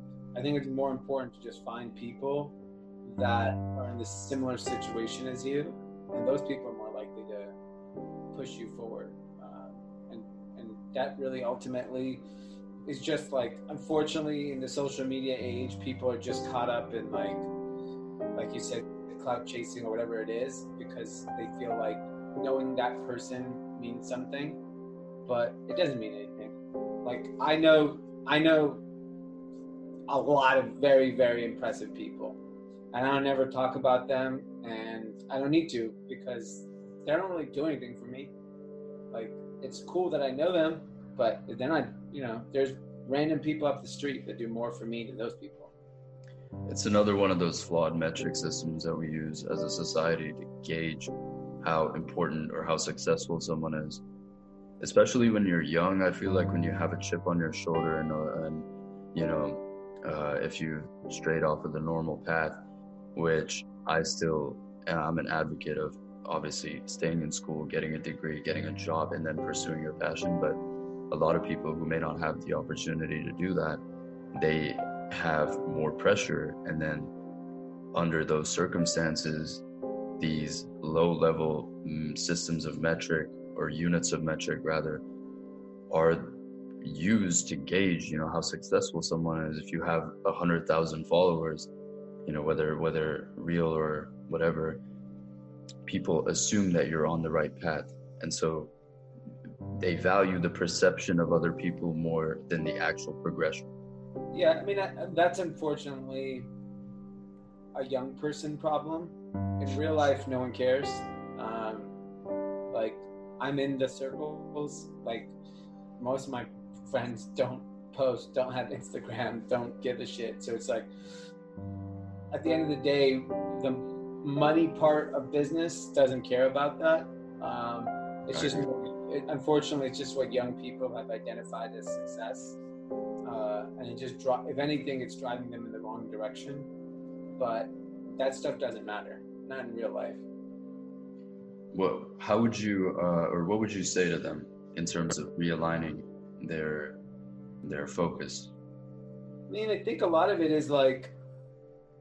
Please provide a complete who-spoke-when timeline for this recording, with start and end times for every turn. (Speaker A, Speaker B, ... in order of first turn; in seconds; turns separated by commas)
Speaker A: 0.3-7.5, Speaker A: 8.3-12.2, Speaker A: 12.9-17.5, Speaker A: 18.4-24.6, Speaker A: 25.3-28.8, Speaker A: 30.1-32.4, Speaker A: 32.9-38.3, Speaker A: 39.1-45.7, Speaker B: 46.7-54.0, Speaker B: 54.8-62.6, Speaker B: 63.1-70.6, Speaker B: 71.1-73.8, Speaker B: 74.3-77.1, Speaker B: 77.9-79.6, Speaker B: 80.2-85.0, Speaker B: 85.9-91.7, Speaker B: 92.3-94.8, Speaker B: 95.9-98.7, Speaker B: 99.8-103.7, Speaker A: 104.3-106.5, Speaker A: 107.8-111.9, Speaker A: 112.7-115.3, Speaker A: 116.0-120.9, Speaker A: 122.3-132.6, Speaker B: 128.3-128.7, Speaker A: 133.2-136.7, Speaker A: 137.4-140.2, Speaker B: 141.7-147.0, Speaker B: 147.6-148.5, Speaker A: 149.5-151.1